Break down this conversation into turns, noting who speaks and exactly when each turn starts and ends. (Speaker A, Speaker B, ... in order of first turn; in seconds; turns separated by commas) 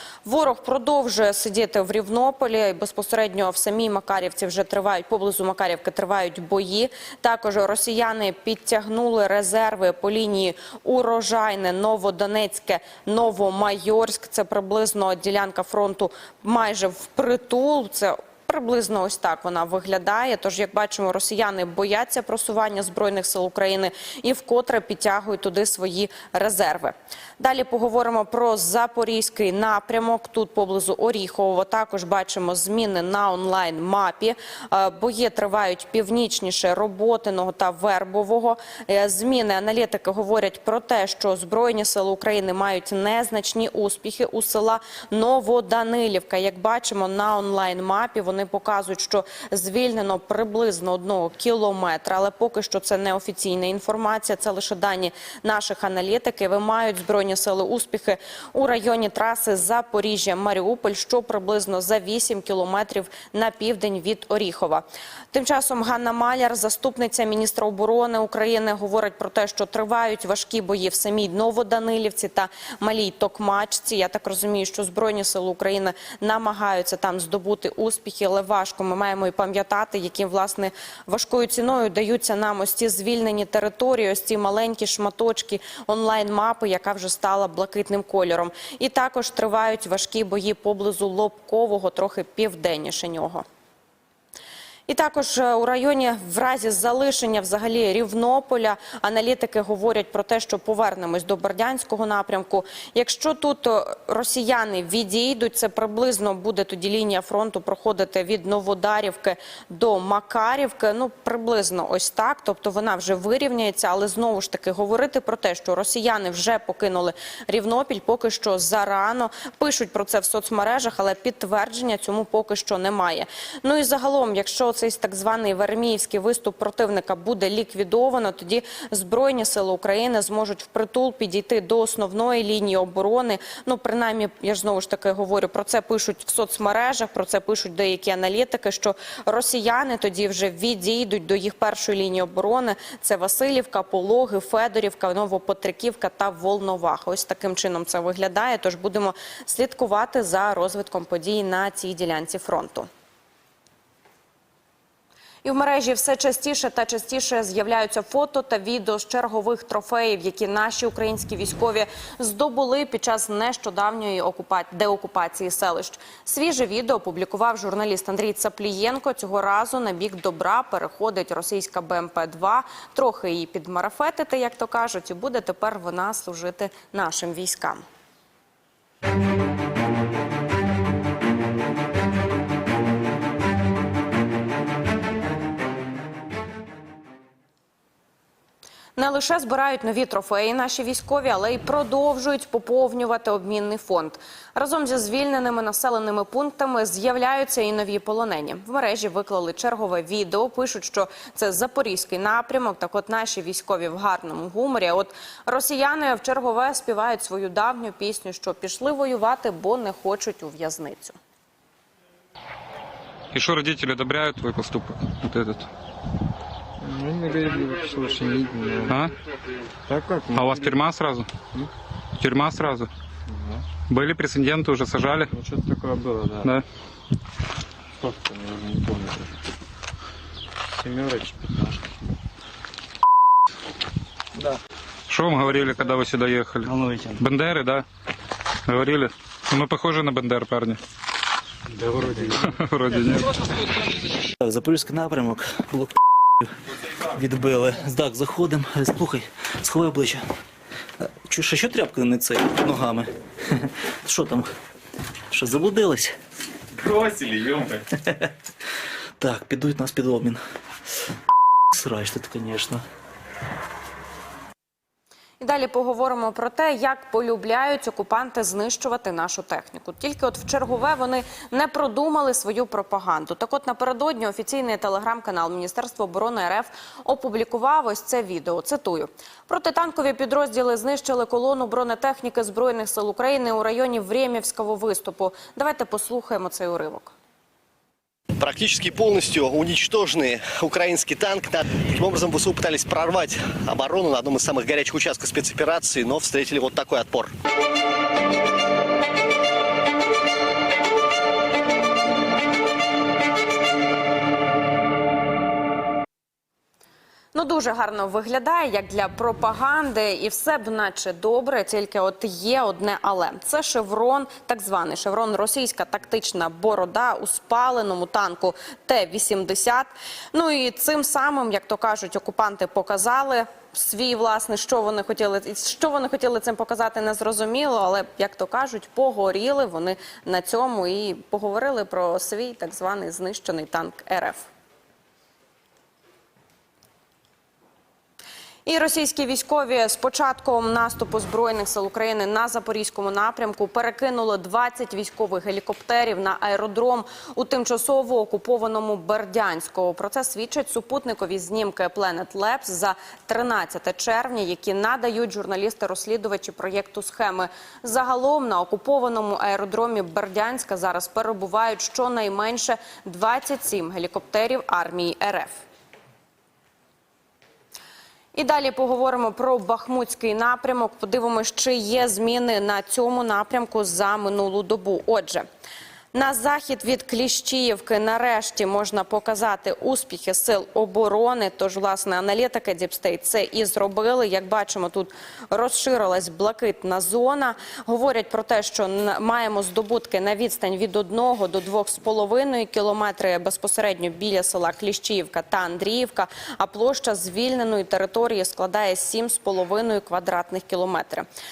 Speaker A: 0.2-93.5, Speaker A: 94.9-152.9, Speaker A: 155.4-177.8, Speaker A: 189.0-211.2, Speaker B: 213.3-215.7, Speaker C: 216.8-219.0, Speaker B: 218.9-219.1, Speaker C: 219.9-220.7, Speaker B: 220.3-221.3, Speaker B: 222.2-222.9, Speaker C: 223.3-223.6, Speaker B: 223.9-225.3, Speaker C: 225.3-226.5, Speaker C: 228.0-229.2, Speaker C: 230.8-231.6, Speaker B: 235.1-237.8, Speaker B: 238.7-240.8, Speaker C: 241.8-242.3, Speaker B: 242.3-243.4, Speaker D: 244.4-250.2, Speaker D: 251.0-254.5, Speaker D: 255.3-256.1, Speaker D: 257.9-258.3, Speaker D: 259.2-260.4, Speaker D: 261.7-262.8, Speaker A: 265.4-287.1, Speaker E: 288.4-297.3, Speaker A: 307.3-334.5, Speaker A: 338.7-365.6, Speaker A: 368.4-375.5, Speaker A: 376.1-401.3